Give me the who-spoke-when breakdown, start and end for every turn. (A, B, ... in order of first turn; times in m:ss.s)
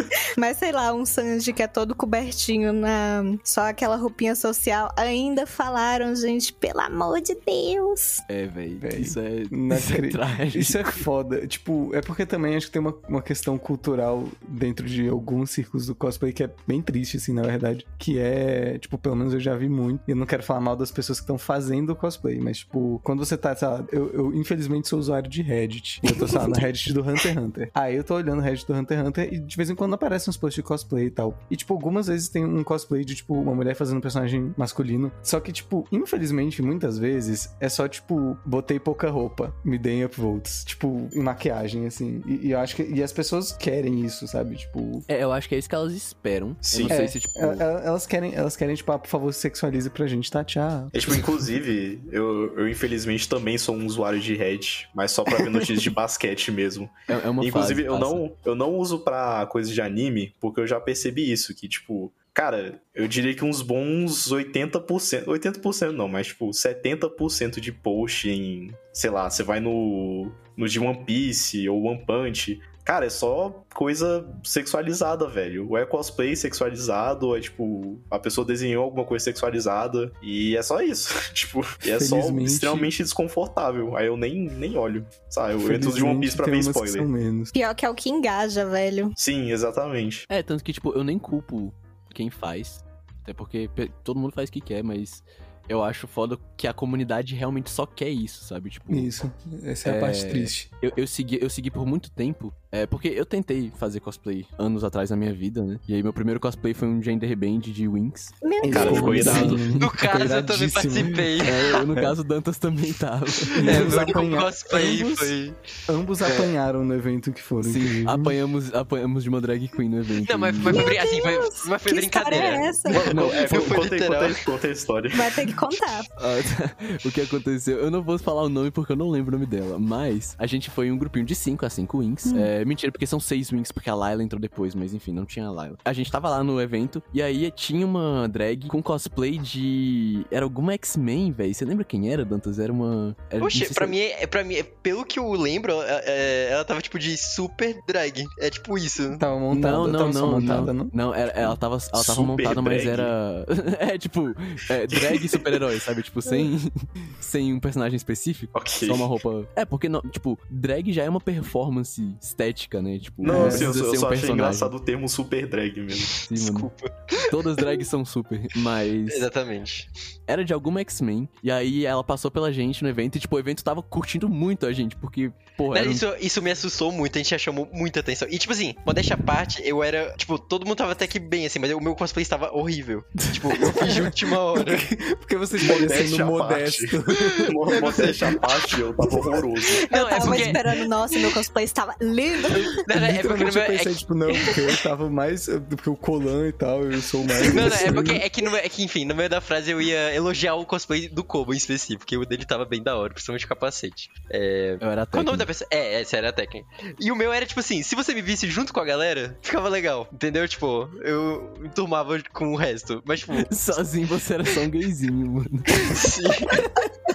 0:00.4-0:08.2 A
0:08.3-0:10.9 B
0:08.8-0:45.1 C
0:26.1-0:26.6 A
0:45.1-0:47.6 B
0:46.7-0:47.0 D
0:46.9-0:51.3 C
0:50.9-1:27.1 D
0:55.3-0:55.6 C
0:57.1-0:58.2 B
1:21.9-1:22.9 C
1:25.6-1:27.5 C
1:27.5-1:29.2 A
1:29.2-1:30.3 D
1:30.3-1:39.1 B
1:38.9-1:40.7 C
1:39.8-1:49.8 B
1:48.4-1:49.4 A
1:48.6-1:51.3 C
1:48.7-1:49.8 D
1:49.8-1:51.9 E
1:51.4-1:54.2 B
1:53.5-1:55.6 E
1:53.6-1:55.3 C
1:55.9-1:58.3 C
1:56.2-1:56.5 B
1:57.6-2:00.9 B
2:00.2-2:04.4 E
2:00.7-2:03.1 A
2:02.9-2:06.0 D
2:03.1-2:03.8 B
2:05.1-2:06.1 A
2:06.2-2:24.0 B
2:12.2-2:12.5 A
2:23.4-2:29.2 E
2:29.2-2:31.5 C
2:29.5-2:44.7 B
2:31.9-2:33.1 D
2:34.9-2:35.4 D
2:38.5-2:39.1 D
2:43.2-2:46.1 D
2:43.3-2:43.8 C
2:46.2-2:47.7 E
2:46.2-2:49.2 B
2:49.1-2:49.9 E
2:50.3-2:56.0 B
2:55.7-3:04.9 E
3:03.2-3:04.0 B
3:03.8-3:08.2 C
3:05.6-3:09.8 D
3:07.1-3:11.3 E
3:09.9-3:12.7 A
3:12.7-3:14.6 E
3:12.9-3:18.2 C
3:17.4-3:33.8 E
3:24.8-3:25.5 B
3:33.3-3:36.0 B
3:35.7-3:36.7 E